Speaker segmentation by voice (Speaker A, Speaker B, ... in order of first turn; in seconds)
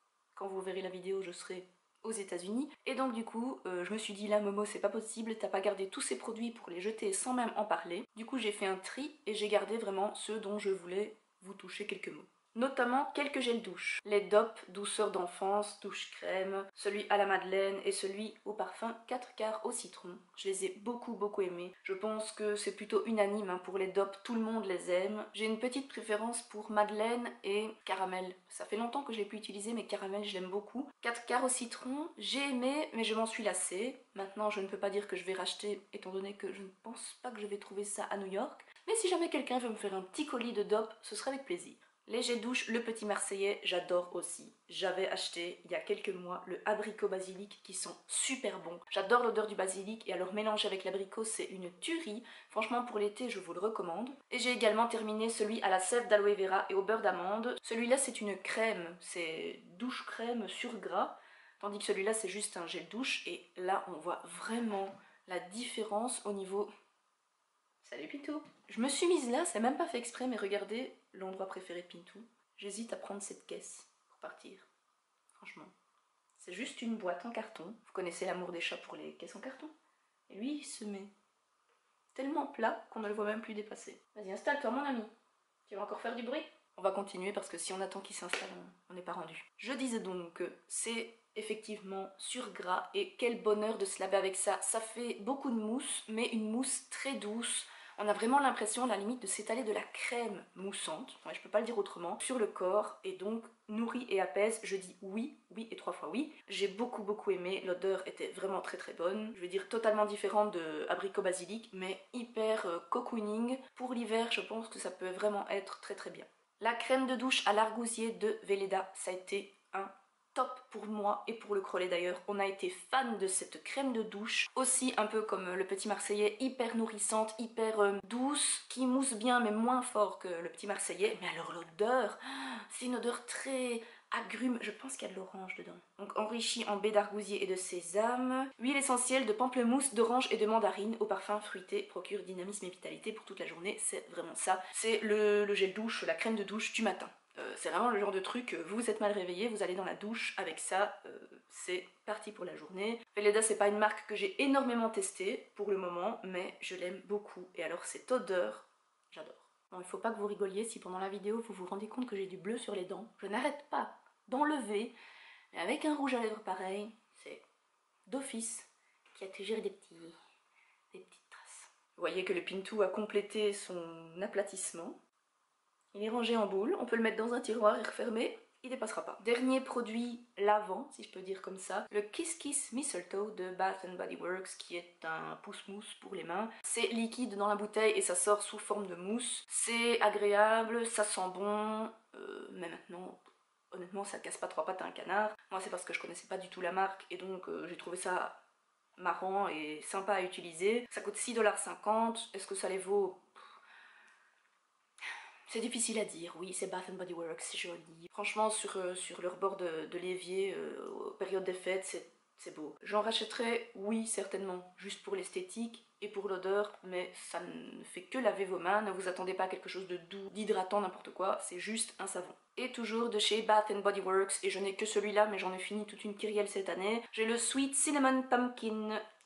Speaker A: 0.3-66.7, 67.8-74.7, 75.4-75.7, 76.4-79.7, 80.3-81.1, 82.1-85.1, 85.7-164.9, 165.5-167.4, 168.1-170.2, 170.9-175.0, 175.9-193.2, 193.7-198.4, 199.0-203.4, 205.5-229.0